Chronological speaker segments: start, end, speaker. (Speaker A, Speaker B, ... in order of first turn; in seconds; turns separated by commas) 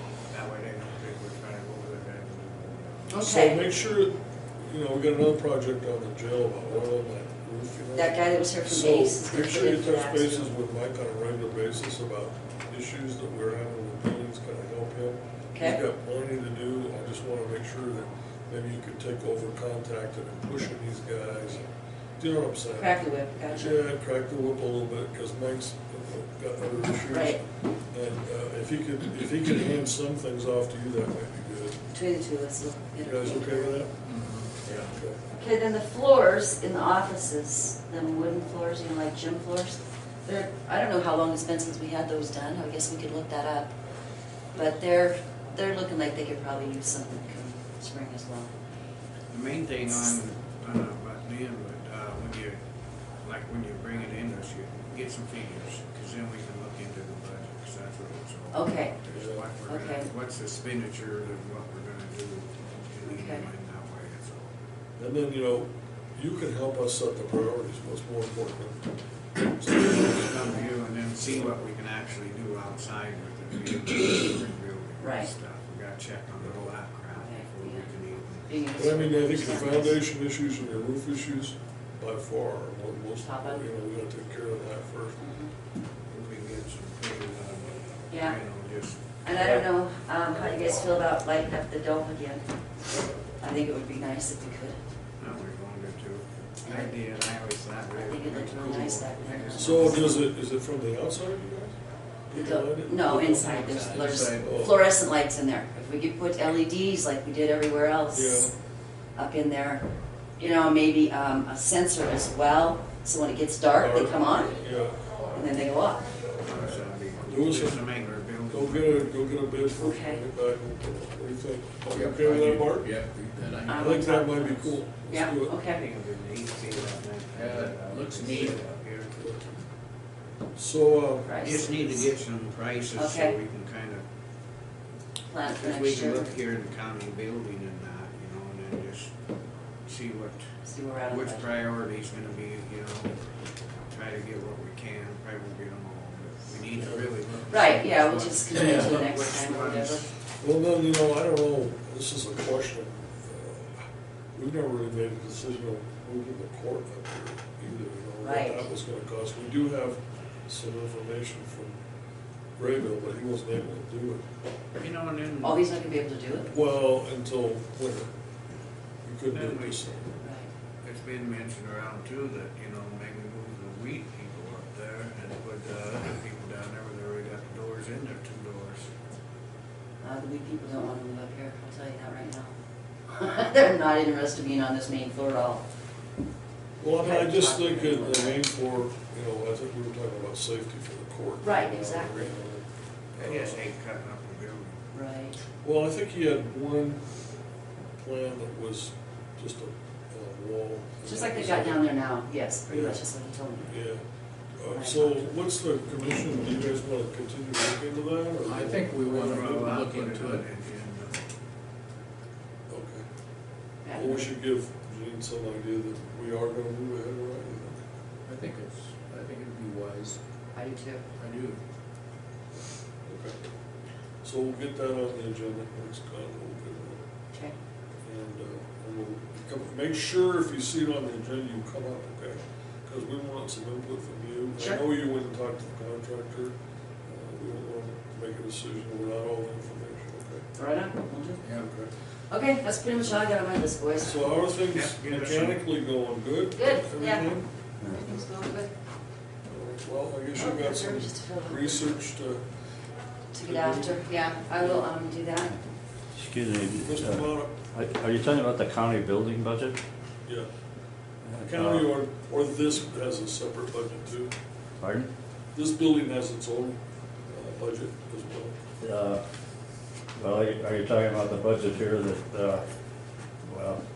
Speaker A: 0.3-3.3, Speaker B: 3.1-3.6, Speaker C: 3.2-31.8, Speaker B: 7.9-10.5, Speaker B: 15.5-15.8, Speaker B: 22.7-23.8, Speaker B: 27.1-27.4, Speaker B: 31.9-33.9, Speaker C: 33.0-33.9, Speaker D: 34.0-34.9, Speaker C: 34.9-35.2, Speaker B: 35.3-43.7, Speaker B: 44.5-48.5, Speaker A: 49.3-52.6, Speaker A: 53.2-64.5, Speaker B: 58.5-58.9, Speaker C: 59.1-59.5, Speaker B: 59.7-60.1, Speaker B: 63.0-63.5, Speaker C: 65.0-68.9, Speaker C: 69.4-70.5, Speaker A: 69.7-78.5, Speaker B: 70.4-70.7, Speaker C: 71.2-71.6, Speaker B: 75.0-75.3, Speaker C: 76.4-76.7, Speaker B: 77.1-77.9, Speaker B: 78.5-80.0, Speaker C: 78.8-85.2, Speaker B: 83.2-83.6, Speaker B: 85.2-85.5, Speaker A: 86.1-89.0, Speaker B: 88.1-88.3, Speaker B: 89.2-92.4, Speaker C: 89.3-89.6, Speaker B: 93.4-94.8, Speaker A: 95.2-100.3, Speaker B: 96.6-97.0, Speaker B: 97.9-100.3, Speaker C: 99.5-101.8, Speaker C: 102.3-104.8, Speaker B: 102.3-108.5, Speaker D: 103.7-104.3, Speaker A: 103.9-104.5, Speaker C: 108.1-108.5, Speaker B: 109.2-109.8, Speaker B: 110.4-114.6, Speaker C: 113.7-115.1, Speaker B: 115.3-116.0, Speaker A: 116.4-119.3, Speaker C: 117.2-117.9, Speaker C: 118.4-122.9, Speaker B: 119.8-120.2, Speaker D: 121.9-124.0, Speaker B: 123.7-125.8, Speaker C: 123.7-125.6, Speaker A: 125.7-129.4, Speaker D: 127.3-128.7, Speaker C: 130.5-131.9, Speaker B: 131.2-132.0, Speaker A: 131.4-134.0, Speaker B: 132.9-133.3, Speaker B: 135.3-136.3, Speaker A: 135.6-139.1, Speaker A: 139.8-140.4, Speaker B: 140.6-141.4, Speaker A: 141.1-143.2, Speaker A: 143.9-150.1, Speaker C: 146.7-147.2, Speaker B: 147.5-150.1, Speaker D: 148.6-148.9, Speaker C: 150.4-153.8, Speaker C: 154.3-161.8, Speaker B: 158.2-158.7, Speaker C: 162.6-164.2, Speaker A: 164.8-165.6, Speaker B: 165.4-166.5, Speaker C: 166.5-168.1, Speaker C: 169.0-170.2, Speaker A: 169.3-169.8, Speaker B: 170.2-170.5, Speaker A: 170.8-178.9, Speaker B: 180.0-182.5, Speaker B: 183.1-185.6, Speaker C: 186.8-193.6, Speaker B: 187.0-188.4, Speaker B: 191.4-192.3, Speaker A: 193.2-194.8, Speaker B: 194.9-195.4, Speaker C: 195.6-197.1, Speaker C: 198.0-201.8, Speaker B: 201.0-203.7, Speaker C: 202.7-203.0, Speaker C: 203.6-204.0, Speaker C: 204.6-209.4, Speaker B: 204.7-205.3, Speaker D: 208.4-210.5, Speaker A: 209.1-211.2, Speaker C: 212.7-213.1, Speaker B: 213.8-214.3, Speaker C: 213.9-217.8, Speaker D: 218.2-221.6, Speaker B: 220.6-221.0, Speaker C: 223.0-223.4, Speaker C: 224.2-227.0, Speaker C: 228.0-236.5, Speaker B: 234.6-234.8, Speaker C: 237.1-240.4, Speaker B: 240.5-241.4, Speaker D: 241.4-241.7, Speaker C: 241.6-241.9, Speaker B: 242.3-244.4, Speaker C: 244.0-247.5, Speaker A: 244.7-245.7, Speaker B: 246.5-247.3, Speaker E: 247.8-248.1, Speaker B: 247.9-248.7, Speaker C: 249.5-252.4, Speaker B: 250.3-251.9, Speaker B: 253.3-255.5, Speaker C: 253.4-254.8, Speaker E: 256.1-259.8, Speaker C: 256.8-257.5, Speaker E: 261.2-261.9, Speaker C: 261.4-264.3, Speaker E: 264.8-265.1, Speaker C: 265.5-268.5, Speaker E: 268.8-269.2, Speaker E: 270.2-272.6, Speaker E: 273.4-273.8